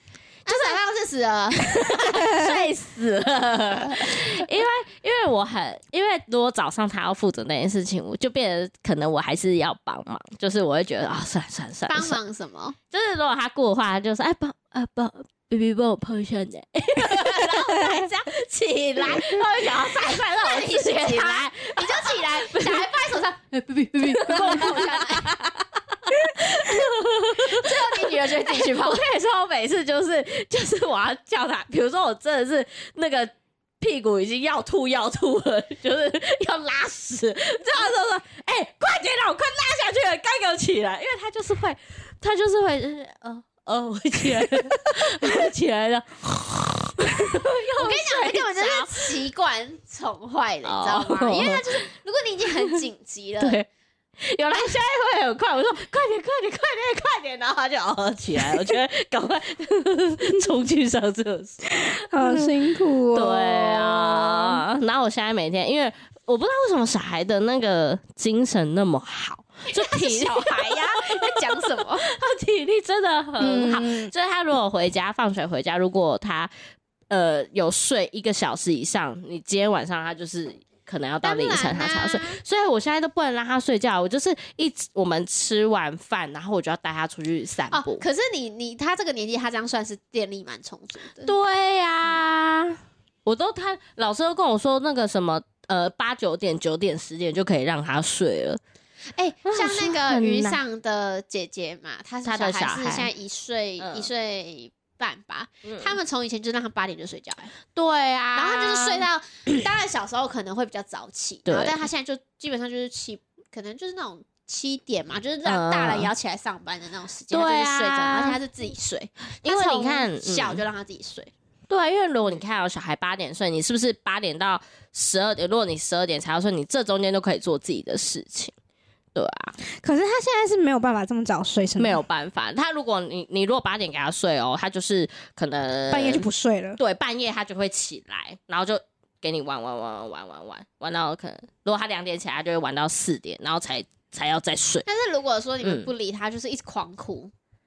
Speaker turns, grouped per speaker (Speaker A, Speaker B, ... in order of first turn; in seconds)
Speaker A: 0.5-0.8, 1.6-12.2, 12.9-22.9, 24.1-49.1, 50.6-51.9, 52.5-52.8, 53.4-53.7, 54.2-62.5, 63.1-76.5, 77.1-88.0, 91.2-98.6, 99.5-100.6, 102.2-103.1, 103.8-104.1, 105.7-106.0, 107.8-109.1, 111.5-111.9, 115.5-116.1, 117.3-118.4, 119.5-120.6, 121.7-128.5, 129.2-129.6, 131.8-136.3, 136.8-144.9, 145.6-145.9
Speaker B: 0.5-2.7, 11.9-12.8, 19.2-25.4, 27.4-29.1, 47.8-53.6, 69.7-72.1, 81.2-82.4, 87.7-91.3, 99.2-107.5, 108.3-121.3, 144.9-147.3
Speaker C: 17.8-18.1, 61.7-64.6, 73.4-74.1, 129.7-132.0, 135.9-136.8